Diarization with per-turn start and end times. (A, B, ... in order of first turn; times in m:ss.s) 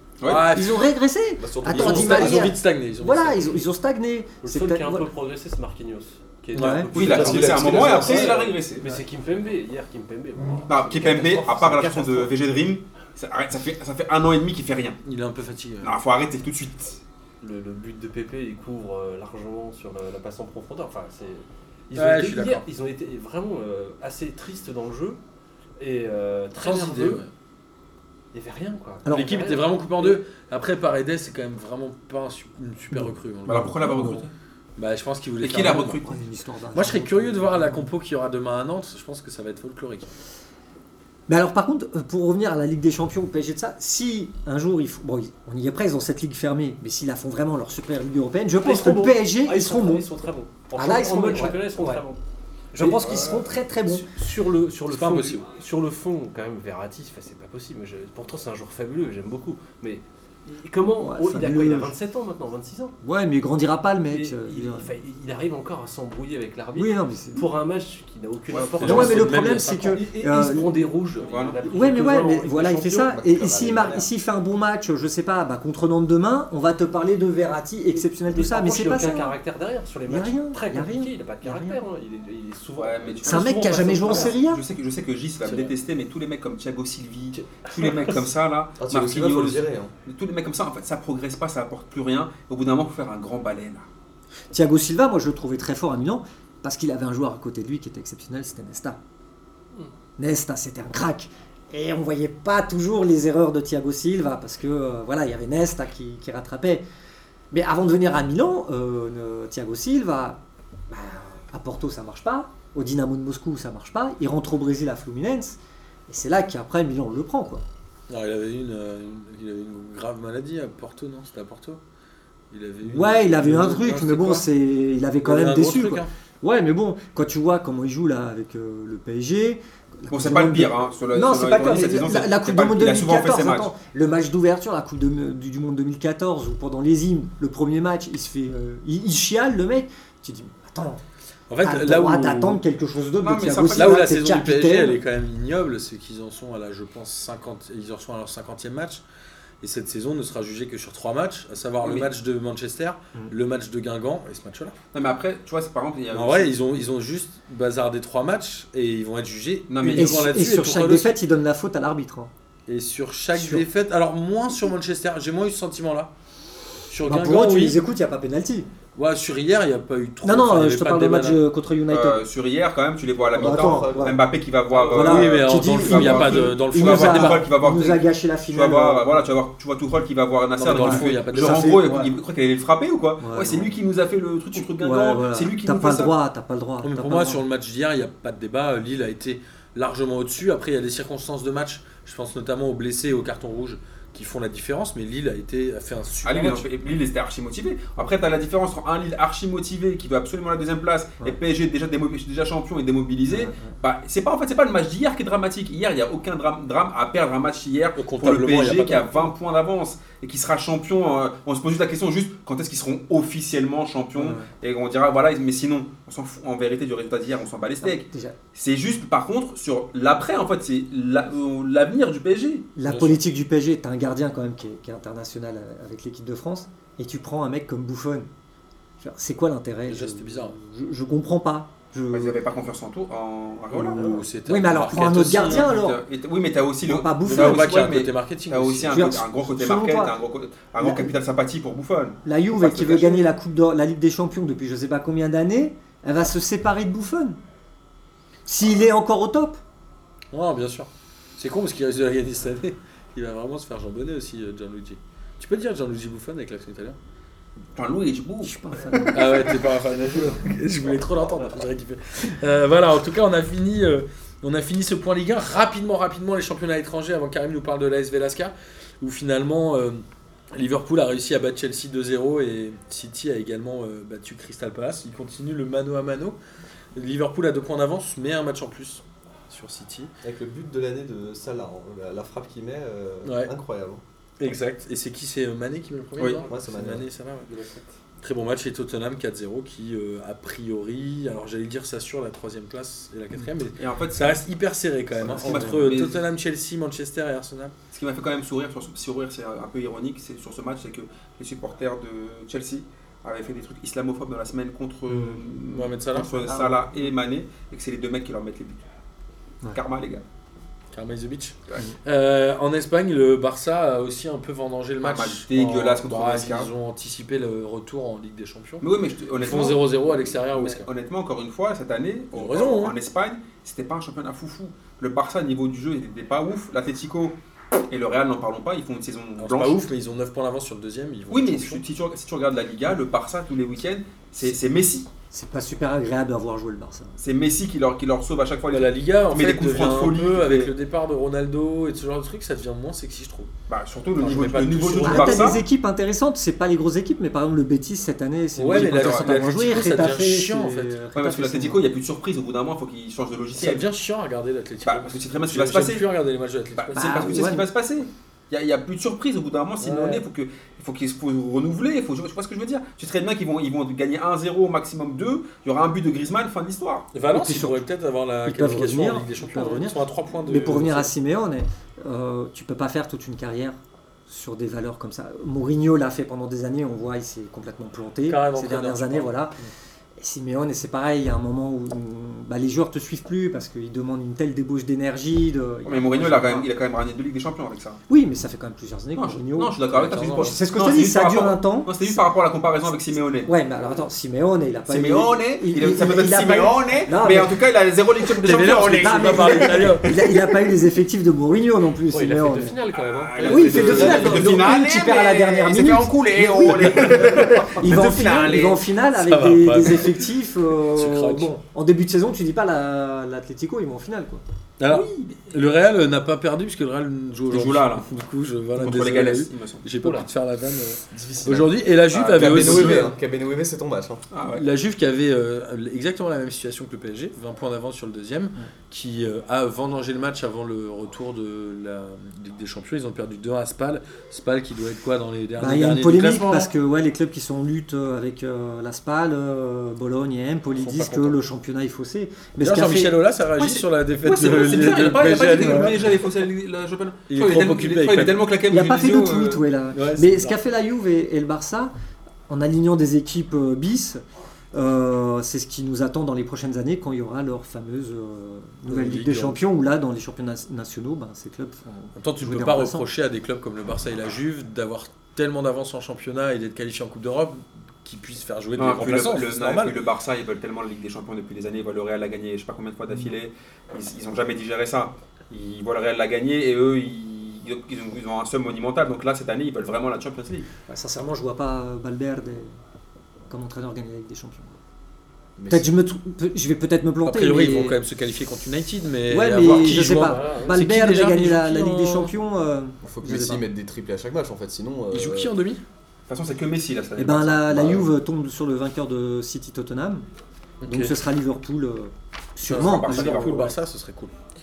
0:00.2-0:00.5 A
0:00.2-0:00.8 B
0:00.4-0:05.1 C
0:01.4-0:02.5 D
0:01.7-0:03.6 B
0:04.4-0:12.4 E
0:06.6-0:06.9 C
0:06.6-0:07.3 B
0:07.0-0:08.8 A
0:07.0-0:08.4 D
0:10.7-0:15.0 A
0:15.0-0:16.0 B
0:15.8-0:17.0 A
0:17.4-0:25.2 E
0:22.0-0:22.6 B
0:25.8-0:27.2 E
0:26.6-0:27.3 B
0:28.3-0:30.2 E
0:29.0-0:29.4 C
0:29.1-0:34.2 B
0:32.9-0:34.2 C
0:33.5-0:34.3 A
0:34.8-0:36.0 B
0:35.4-0:36.2 A
0:35.6-0:37.9 C
0:36.7-0:40.1 B
0:41.3-0:50.1 C
0:48.6-0:52.2 E
0:50.8-0:52.0 C
0:52.7-1:03.0 E
0:52.8-0:54.1 C
0:54.9-0:55.4 B
1:01.0-1:01.9 C
1:03.0-1:04.9 C
1:04.1-1:14.1 E
1:06.8-1:07.5 C
1:08.5-1:09.1 A
1:08.8-1:10.0 B
1:08.8-1:10.7 C
1:11.2-1:11.6 A
1:11.6-1:19.4 C
1:13.2-1:14.0 A
1:18.3-1:24.4 E
1:20.1-1:21.8 C
1:22.8-1:33.9 A
1:23.2-1:24.6 C
1:25.4-1:25.7 B
1:28.8-1:29.9 D
1:34.5-1:39.0 C
1:40.2-1:46.8 C
1:47.5-1:57.6 C
1:58.1-2:01.8 B
2:02.5-2:04.5 B
2:02.8-2:21.0 C
2:05.2-2:06.1 B
2:10.1-2:13.7 A
2:21.5-2:22.6 B
2:21.6-2:25.0 C
2:23.2-2:24.1 A
2:23.7-2:29.0 B
2:29.6-2:34.8 B
2:31.8-2:32.1 A
2:34.9-2:36.5 A
2:36.1-2:41.1 B
2:39.7-2:40.2 A
2:39.9-2:42.3 C
2:42.7-2:46.1 B
2:43.3-2:43.7 C
2:46.9-2:47.8 B
2:47.0-2:48.7 C
2:49.0-2:51.4 B
2:50.2-2:52.2 C
2:51.9-3:06.1 A
2:53.4-2:54.2 D
2:53.4-2:54.2 C
2:54.8-2:59.2 C
2:54.9-2:57.4 B
3:00.6-3:02.1 B
3:00.7-3:02.1 C
3:03.2-3:03.8 C
3:04.6-3:07.4 C
3:06.8-3:16.7 B
3:16.2-3:42.7 A
3:23.3-3:23.7 C
3:28.0-3:29.3 B
3:34.2-3:34.5 C
3:37.8-3:38.4 C
3:42.8-3:48.3 C
3:42.8-3:43.2 B
3:49.0-3:52.4 C
3:49.9-3:50.6 B
3:52.1-3:54.0 A
3:53.7-3:56.0 C
3:53.9-3:55.7 B
3:55.2-4:03.2 A
3:56.8-3:57.9 C
3:57.2-3:59.1 B
3:58.9-4:00.2 C
4:00.8-4:01.2 C
4:02.2-4:07.4 C
4:08.5-4:09.6 C
4:10.3-4:17.0 B
4:17.8-4:19.2 A
4:18.4-4:19.5 C
4:19.1-4:36.4 B
4:37.0-4:40.1 B
4:40.2-4:44.0 D
4:43.2-4:43.5 B
4:44.4-4:47.5 B
4:46.2-4:46.5 A
4:46.5-4:47.8 D
4:48.2-4:57.7 B
4:53.8-4:54.4 A
4:55.2-4:56.2 A
4:55.4-4:55.8 C
4:57.9-5:08.8 A
5:05.1-5:05.4 C
5:05.5-5:06.4 B
5:06.3-5:07.1 C
5:09.7-5:10.2 A
5:10.9-5:18.9 B
5:15.0-5:16.7 A
5:18.8-5:27.4 A
5:19.4-5:20.9 B
5:22.3-5:23.0 B
5:27.9-5:29.9 A
5:29.4-5:31.8 B
5:31.3-5:35.1 A
5:35.3-5:37.2 C
5:37.2-5:40.7 A
5:38.7-5:43.5 B
5:43.7-5:45.6 A
5:44.2-5:45.6 B
5:45.0-5:51.8 C
5:48.6-5:51.0 B
5:48.7-5:49.3 A
5:51.2-5:53.9 A
5:53.6-5:57.4 B
5:54.8-5:56.1 A
5:56.8-6:07.1 A
5:56.9-5:57.7 C
5:59.8-6:00.2 B
6:07.1-6:11.1 B
6:07.3-6:07.8 C
6:08.4-6:19.6 C
6:18.3-6:19.7 B
6:20.2-6:26.7 C
6:25.8-6:28.0 A
6:28.1-6:32.2 C
6:29.2-6:33.5 A
6:29.9-6:30.6 B
6:33.5-6:37.6 C
6:34.9-6:40.0 A
6:38.4-6:40.2 B
6:38.4-6:42.8 C
6:42.1-6:44.5 E
6:43.0-6:48.8 A
6:43.4-6:54.4 C
6:43.6-6:44.4 B
6:47.1-6:47.7 B
6:49.2-6:50.2 B
6:50.9-6:51.5 B
6:54.8-7:03.1 B
6:54.9-6:55.5 A
6:57.5-6:58.1 A
6:58.8-6:59.8 A
7:00.0-7:00.3 E
7:01.1-7:04.2 D
7:02.2-7:03.1 A
7:04.3-7:04.6 A
7:04.5-7:16.7 B
7:15.6-7:23.2 C
7:20.8-7:21.4 B
7:22.6-7:26.1 B
7:23.6-7:29.6 A
7:25.3-7:26.0 C
7:27.3-7:28.4 B
7:28.7-7:31.9 C
7:29.9-7:30.6 B
7:32.5-7:34.2 C
7:34.7-7:43.1 C
7:38.9-7:39.6 B
7:42.2-7:50.0 B
7:48.8-8:00.7 A
8:00.9-8:02.7 C
8:03.5-8:04.8 C
8:05.6-8:05.9 D
8:05.7-8:08.0 C
8:07.2-8:12.3 B
8:09.3-8:13.7 C
8:09.7-8:10.8 E
8:13.0-8:15.5 D
8:15.1-8:15.8 B
8:16.3-8:18.1 A
8:17.2-8:20.2 C
8:20.8-8:21.2 B
8:20.8-8:23.7 C
8:22.7-8:24.4 B
8:22.7-8:23.7 A